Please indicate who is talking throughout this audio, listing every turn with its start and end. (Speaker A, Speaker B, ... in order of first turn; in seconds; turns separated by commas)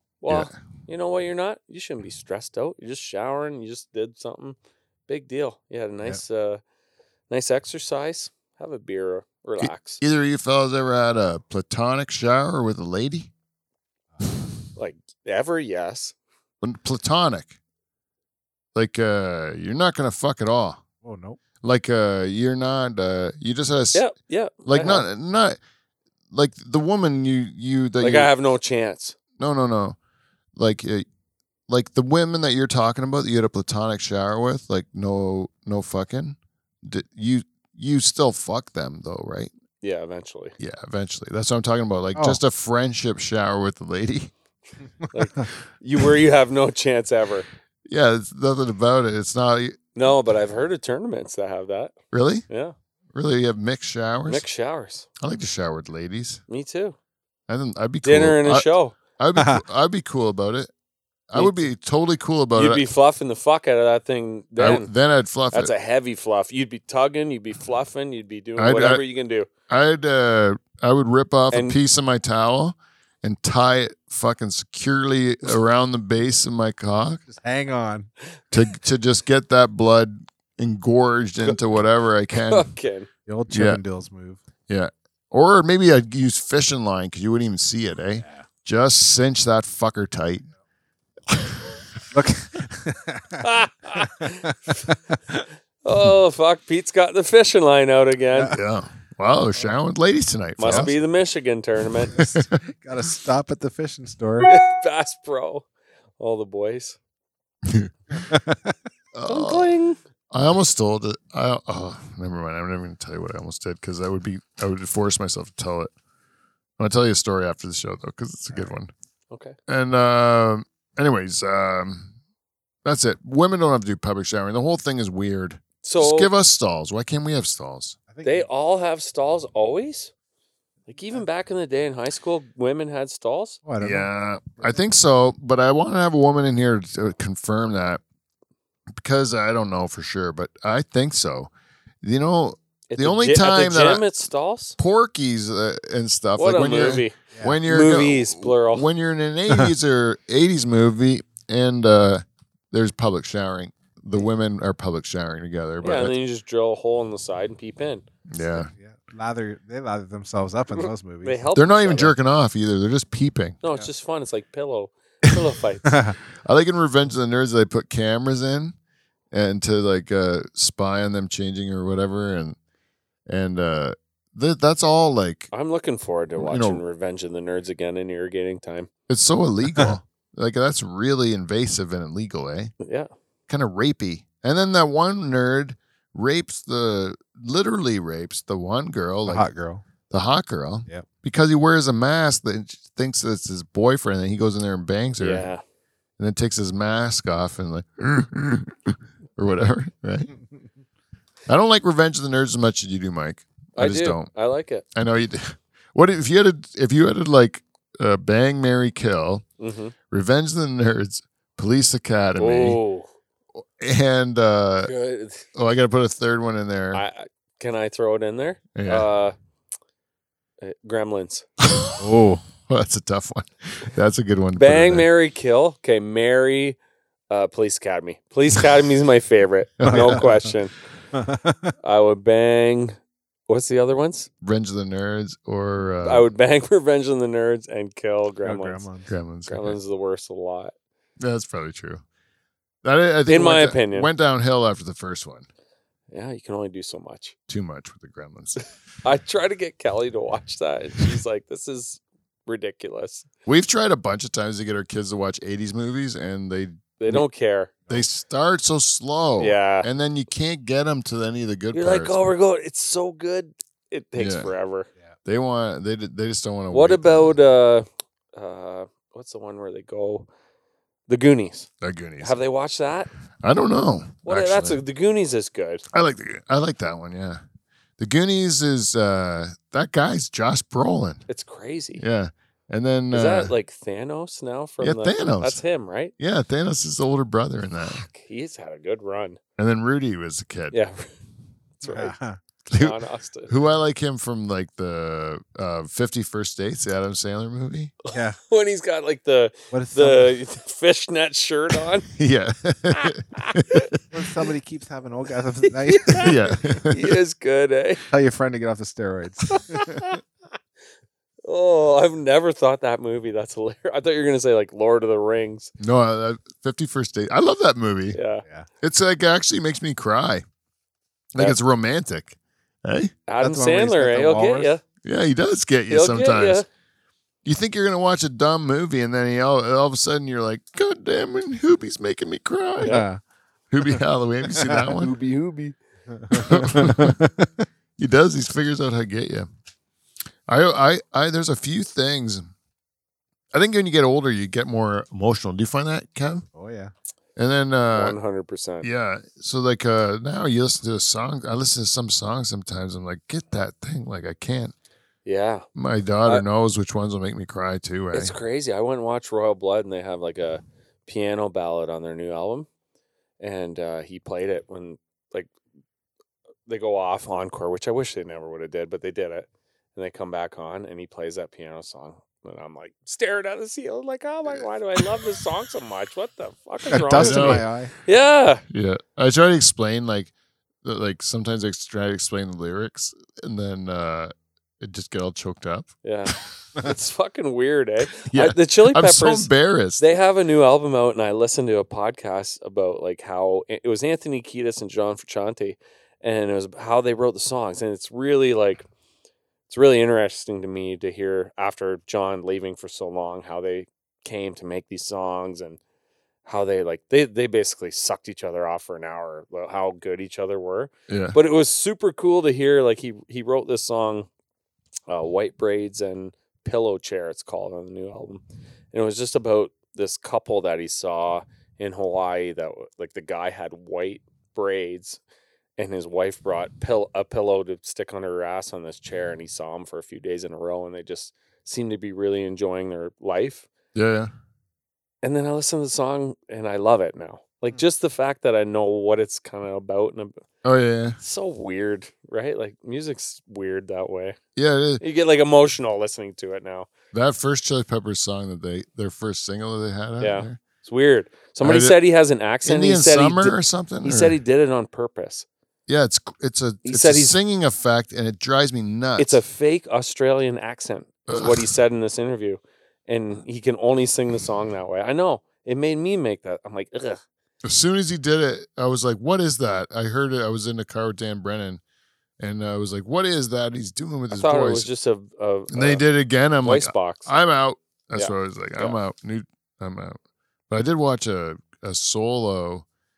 Speaker A: 0.2-4.6, Speaker B: 0.3-0.5, Speaker A: 5.1-6.6, Speaker A: 7.3-10.0, Speaker B: 9.6-13.3, Speaker C: 14.1-14.4, Speaker A: 14.8-16.1, Speaker B: 16.6-17.5, Speaker B: 18.7-20.8, Speaker C: 21.0-21.4, Speaker B: 21.6-24.0, Speaker A: 23.9-25.0, Speaker B: 24.6-25.6, Speaker B: 26.3-28.3, Speaker A: 28.0-29.1, Speaker B: 29.4-30.0, Speaker B: 30.6-31.0, Speaker B: 31.7-39.5, Speaker A: 39.8-40.5, Speaker B: 40.6-44.3, Speaker C: 42.1-42.4, Speaker A: 45.1-47.5, Speaker B: 47.9-49.8, Speaker A: 50.0-51.9, Speaker B: 52.1-52.5, Speaker A: 52.5-52.7, Speaker B: 53.1-54.5, Speaker A: 54.3-55.1, Speaker B: 55.2-56.4, Speaker A: 56.5-57.0, Speaker B: 57.5-60.7, Speaker A: 58.0-59.0, Speaker C: 59.4-59.6, Speaker B: 61.3-62.9, Speaker A: 61.4-61.7, Speaker A: 62.5-64.9, Speaker B: 64.6-65.7, Speaker A: 65.5-69.5, Speaker B: 68.6-69.0, Speaker B: 69.7-77.2, Speaker A: 71.5-71.8, Speaker C: 77.2-78.1, Speaker B: 78.5-82.7, Speaker A: 82.3-83.1, Speaker C: 83.3-84.4, Speaker B: 83.5-83.8, Speaker B: 84.7-90.5, Speaker C: 88.2-88.5, Speaker C: 92.1-95.4, Speaker A: 93.4-94.5, Speaker A: 95.8-98.5, Speaker B: 98.5-100.9, Speaker A: 100.6-102.2, Speaker C: 102.1-104.5, Speaker B: 102.1-102.6, Speaker A: 104.4-105.6, Speaker A: 106.2-107.0, Speaker B: 107.6-108.2, Speaker C: 108.1-108.7, Speaker B: 109.1-109.7, Speaker A: 109.3-110.0, Speaker B: 110.3-115.9, Speaker B: 116.8-118.9, Speaker A: 119.3-119.5, Speaker B: 119.7-122.1, Speaker B: 122.8-128.0, Speaker A: 125.8-126.3, Speaker C: 128.1-128.5, Speaker A: 128.2-130.1, Speaker A: 130.9-133.6, Speaker C: 133.6-134.1, Speaker B: 133.8-138.0, Speaker B: 139.0-141.5, Speaker B: 142.0-144.0, Speaker A: 142.9-144.8, Speaker B: 144.8-156.1, Speaker A: 146.4-148.8, Speaker C: 147.3-147.6, Speaker A: 155.8-158.0, Speaker B: 158.3-158.7, Speaker C: 158.6-161.4, Speaker A: 160.8-162.1, Speaker B: 161.5-163.6, Speaker A: 163.6-166.0, Speaker C: 165.9-166.2, Speaker B: 166.4-168.7, Speaker B: 169.3-172.6, Speaker B: 173.3-175.5, Speaker A: 175.5-178.9, Speaker B: 176.4-176.8, Speaker B: 179.1-182.7, Speaker A: 182.8-183.1, Speaker B: 183.5-189.4, Speaker C: 189.2-189.8, Speaker B: 190.1-195.5, Speaker A: 195.2-195.6, Speaker B: 196.2-200.3, Speaker B: 201.5-204.3, Speaker A: 203.8-204.8, Speaker B: 204.9-209.4, Speaker A: 209.6-209.9, Speaker B: 210.1-212.8, Speaker A: 212.4-213.1, Speaker B: 213.6-214.9, Speaker A: 214.8-215.5, Speaker B: 215.5-217.0, Speaker A: 216.9-219.3, Speaker B: 218.7-219.1, Speaker A: 220.6-221.4, Speaker B: 221.6-222.0, Speaker C: 222.0-222.4, Speaker B: 222.7-225.1, Speaker A: 224.6-226.8, Speaker A: 227.3-230.7, Speaker B: 229.8-230.3, Speaker C: 229.8-230.5, Speaker C: 231.1-231.7, Speaker A: 231.8-232.9, Speaker A: 233.5-234.3, Speaker B: 234.4-236.3, Speaker A: 236.0-238.9, Speaker C: 238.4-239.1, Speaker B: 239.1-239.8, Speaker A: 239.5-240.7, Speaker B: 241.2-242.0, Speaker B: 242.8-245.4, Speaker A: 243.3-244.1, Speaker A: 246.1-247.3, Speaker B: 247.5-248.6, Speaker A: 249.0-253.3, Speaker B: 253.4-257.2, Speaker A: 257.0-257.8, Speaker B: 257.9-262.2, Speaker A: 259.4-259.9, Speaker A: 261.7-264.9, Speaker B: 264.1-264.5, Speaker B: 265.2-267.4, Speaker A: 266.7-270.3, Speaker A: 271.1-271.7, Speaker B: 271.8-272.4, Speaker A: 272.2-273.1, Speaker B: 273.4-274.8, Speaker A: 274.2-275.8, Speaker B: 275.9-277.4, Speaker B: 278.0-281.2, Speaker A: 281.3-282.0, Speaker B: 282.0-283.5, Speaker A: 283.1-286.1, Speaker B: 284.8-285.6, Speaker B: 286.2-288.1, Speaker A: 287.8-289.4, Speaker B: 289.6-290.8, Speaker A: 290.7-291.1, Speaker A: 291.8-292.1, Speaker C: 291.8-292.4, Speaker A: 292.7-293.5, Speaker B: 292.7-293.0, Speaker B: 293.5-297.9, Speaker A: 298.0-302.1, Speaker C: 298.1-298.4, Speaker C: 299.7-300.4, Speaker B: 302.1-304.0, Speaker A: 302.9-303.9, Speaker C: 304.1-306.4, Speaker A: 305.9-308.0, Speaker B: 306.2-307.2, Speaker C: 308.1-310.1, Speaker A: 309.5-310.2, Speaker A: 311.4-315.7, Speaker B: 315.8-318.2, Speaker A: 318.1-318.4, Speaker B: 318.8-320.4, Speaker B: 321.3-323.1, Speaker A: 323.3-324.8, Speaker C: 323.4-324.8, Speaker B: 325.0-326.6, Speaker A: 325.9-326.6, Speaker B: 327.4-333.0, Speaker A: 332.8-333.0, Speaker C: 332.8-333.2, Speaker B: 333.7-335.1, Speaker C: 334.6-334.9, Speaker A: 334.9-335.8, Speaker C: 336.1-337.6, Speaker B: 336.4-337.2, Speaker B: 338.0-339.5, Speaker B: 340.5-342.5, Speaker B: 343.5-346.4, Speaker C: 346.5-346.9, Speaker B: 347.4-348.1, Speaker A: 347.9-348.9, Speaker B: 348.8-354.7, Speaker A: 355.2-355.6, Speaker B: 355.7-358.3, Speaker A: 358.1-362.7, Speaker A: 363.4-365.5, Speaker A: 366.7-378.6, Speaker C: 376.9-377.9, Speaker B: 377.1-377.6, Speaker B: 378.7-380.3, Speaker B: 380.8-385.9, Speaker A: 386.0-398.8, Speaker B: 388.2-390.0, Speaker A: 399.7-405.8, Speaker A: 406.4-414.3, Speaker B: 411.1-411.4, Speaker A: 415.1-418.4, Speaker A: 418.9-425.2, Speaker A: 425.8-433.7, Speaker B: 433.9-434.3, Speaker A: 435.2-440.4, Speaker B: 440.6-441.2, Speaker A: 441.2-444.4, Speaker B: 444.6-445.0, Speaker A: 445.0-446.9, Speaker B: 447.1-450.6, Speaker A: 450.2-455.4, Speaker B: 451.6-452.0, Speaker B: 452.6-454.4, Speaker B: 455.9-459.4, Speaker A: 456.8-457.4, Speaker A: 459.2-467.2, Speaker B: 461.3-461.8, Speaker B: 467.6-471.8, Speaker B: 472.4-474.9, Speaker A: 474.3-476.0, Speaker B: 475.7-480.2, Speaker A: 476.6-477.3, Speaker A: 478.1-479.0, Speaker B: 480.7-482.8